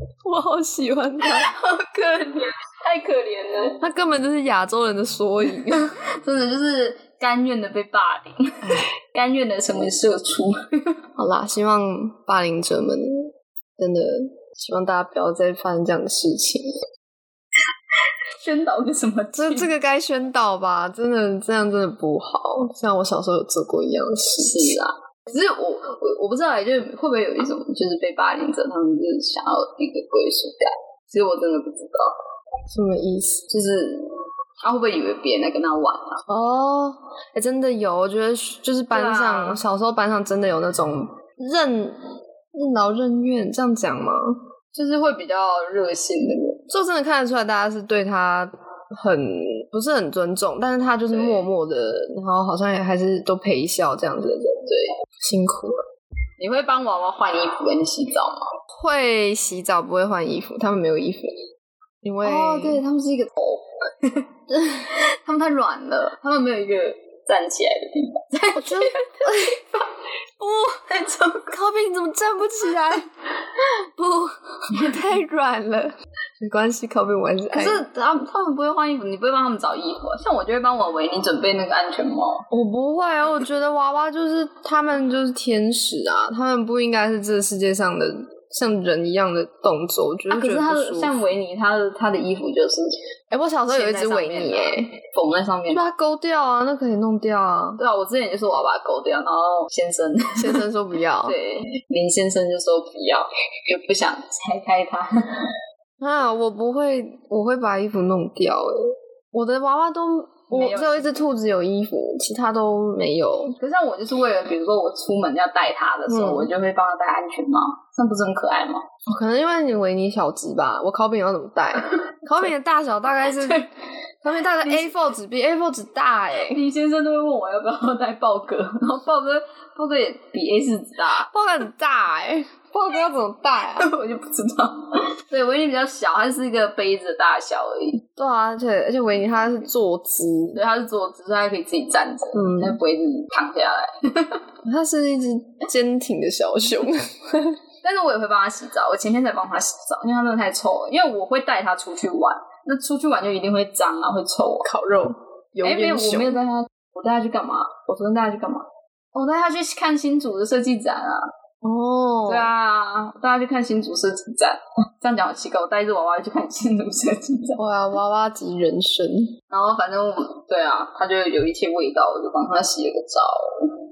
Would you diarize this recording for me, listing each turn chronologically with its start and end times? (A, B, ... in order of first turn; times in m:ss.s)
0:00.2-0:01.5 A
0:01.2-0:03.8 B
0:03.8-0:06.0 A
0:05.7-0:11.0 B
0:11.2-0:16.7 A
0:18.4-0:19.7 B
0:19.3-0:24.8 A
0:24.4-0:32.2 B
0:32.7-0:33.4 A
0:33.5-0:36.2 B
0:36.3-0:42.0 A
0:38.9-0:39.6 B
0:42.5-0:44.4 A
0:44.7-0:46.7 B
0:46.7-0:55.8 A
0:51.1-0:51.5 B
0:56.4-0:58.5 B
0:58.7-1:01.4 A
1:02.0-1:02.8 A
1:02.2-1:09.6 B
1:08.5-1:09.6 A
1:10.4-1:11.5 B
1:11.5-1:17.8 A
1:17.5-1:22.5 B
1:22.5-1:31.1 A
1:30.3-1:33.0 B
1:33.3-1:35.0 A
1:33.7-1:35.9 B
1:35.7-1:37.8 A
1:37.8-1:40.6 B
1:40.4-1:41.4 A
1:41.2-1:45.5 B
1:46.0-1:53.6 A
1:50.5-1:51.2 B
1:53.6-1:58.8 B
1:56.1-1:56.5 A
1:59.0-2:03.6 A
2:03.4-2:03.7 B
2:04.2-2:06.6 A
2:04.3-2:04.9 B
2:06.4-2:11.3 B
2:11.2-2:13.9 A
2:13.7-2:18.0 B
2:18.2-2:20.6 A
2:19.1-2:19.7 B
2:20.5-2:24.4 B
2:22.3-2:22.8 A
2:24.6-2:27.6 A
2:27.8-2:34.7 B
2:34.6-2:36.4 A
2:35.6-2:41.3 B
2:41.6-2:42.5 A
2:42.2-2:47.6 B
2:47.6-2:49.3 A
2:49.5-2:53.7 B